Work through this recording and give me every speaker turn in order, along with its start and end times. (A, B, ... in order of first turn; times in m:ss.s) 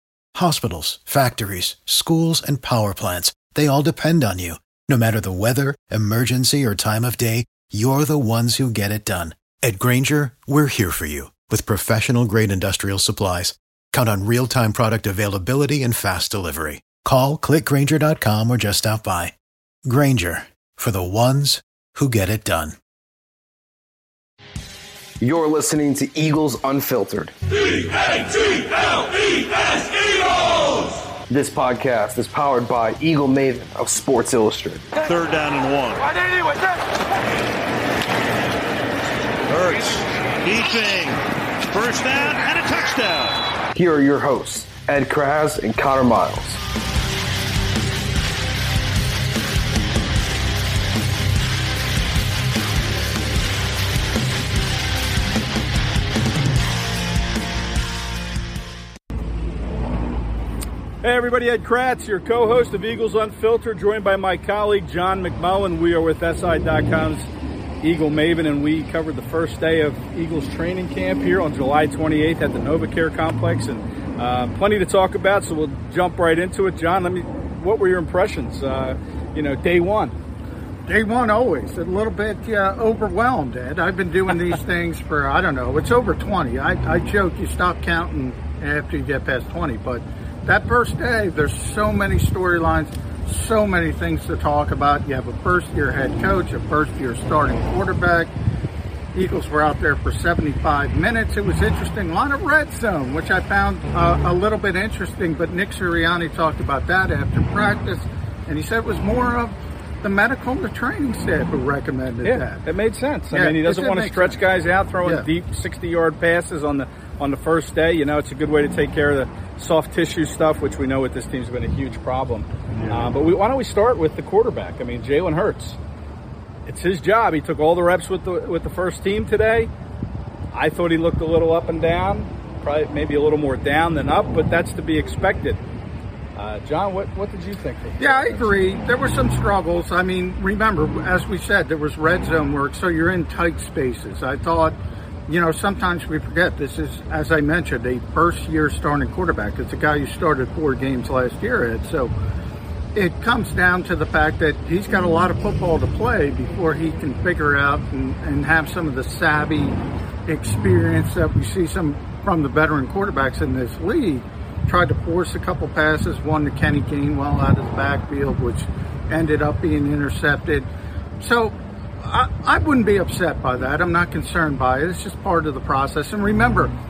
0:00.3-0:19.4 A
0:19.9-0:22.8 A
0:25.2-0:28.6 B
0:28.8-0:29.1 C
0:29.8-0:35.1 B
0:35.0-0:36.6 C
0:39.5-0:43.4 C
0:43.7-0:46.6 B
1:01.0-1:07.3 D
1:07.8-1:20.2 D
1:20.9-1:38.3 E
1:39.1-1:52.6 E
1:52.2-2:05.8 D
1:53.3-1:54.4 E
2:06.7-2:09.7 D
2:10.5-2:15.6 D
2:16.4-2:18.6 D
2:18.0-2:32.1 E
2:33.0-2:50.7 E
2:51.2-2:56.7 E